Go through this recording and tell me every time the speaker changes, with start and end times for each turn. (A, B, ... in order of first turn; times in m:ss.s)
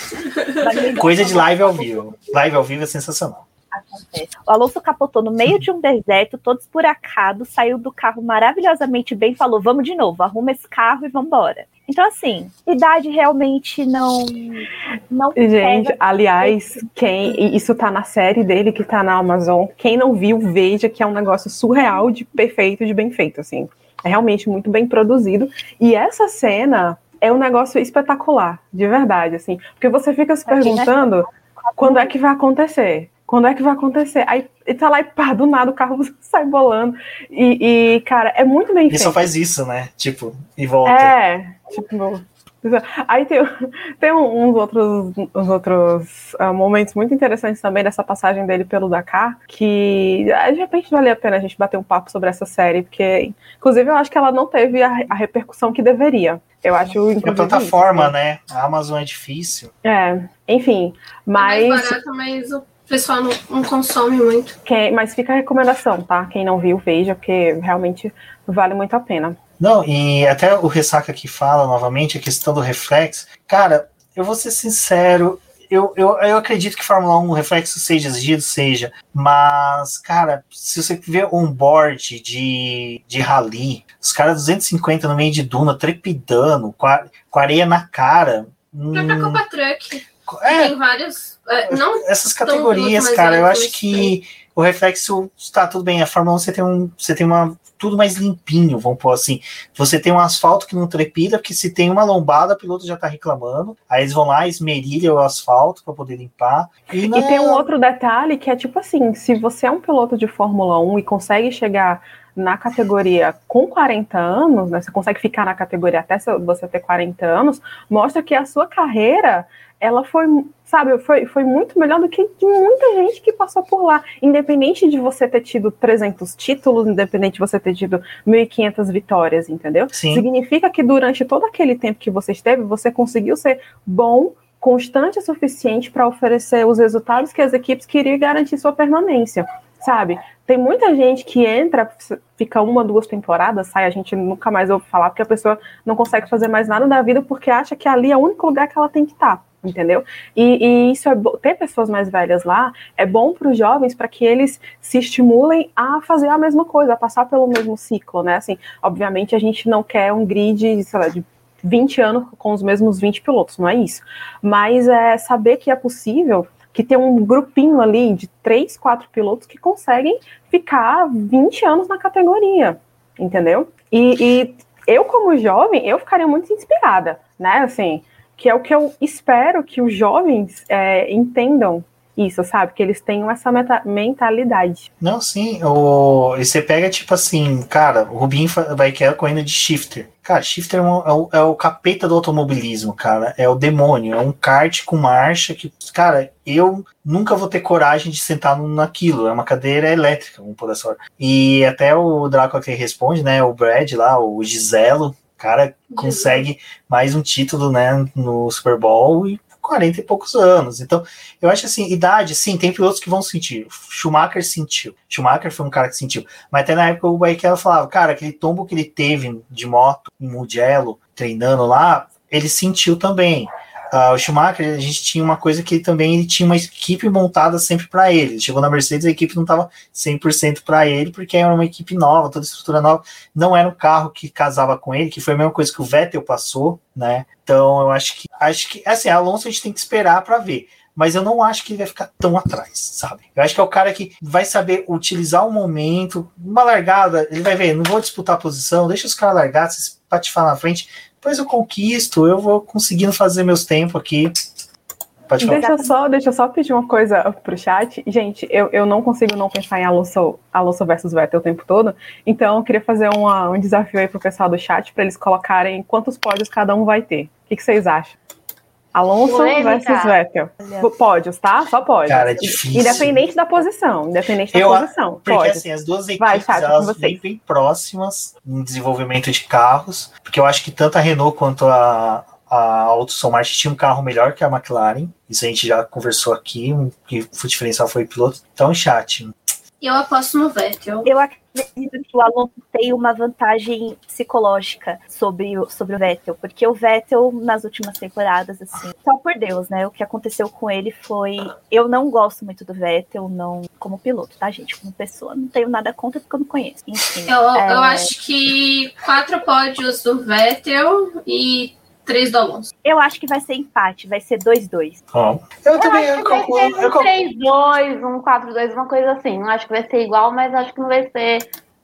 0:00.6-0:02.4 A
0:01.0-0:03.4 B
0:03.7-0:17.4 A
0:15.4-0:31.3 C
0:30.4-0:32.1 A
0:31.8-0:39.3 C
0:38.9-0:41.1 B
0:40.8-0:58.1 C
0:57.2-0:59.7 B
0:59.8-1:01.9 C
1:01.4-1:04.6 D
1:04.6-1:09.4 C
1:09.6-1:29.4 B
1:28.9-1:34.1 D
1:30.3-1:30.7 B
1:31.7-1:47.6 B
1:47.0-3:04.9 C
2:09.9-2:10.2 B
3:05.0-4:14.4 B
3:25.9-3:26.4 D
4:15.3-4:15.7 B
4:15.4-4:28.2 C
4:15.4-4:15.9 A
4:28.9-4:35.6 C
4:29.2-4:30.2 E
4:30.6-4:30.9 A
4:32.0-4:33.2 B
4:34.5-4:49.3 B
4:36.2-4:37.2 C
4:49.8-4:51.1 D
4:51.0-5:08.1 A
5:07.3-5:12.7 D
5:12.8-5:14.9 A
5:15.1-5:17.1 B
5:15.8-5:21.5 E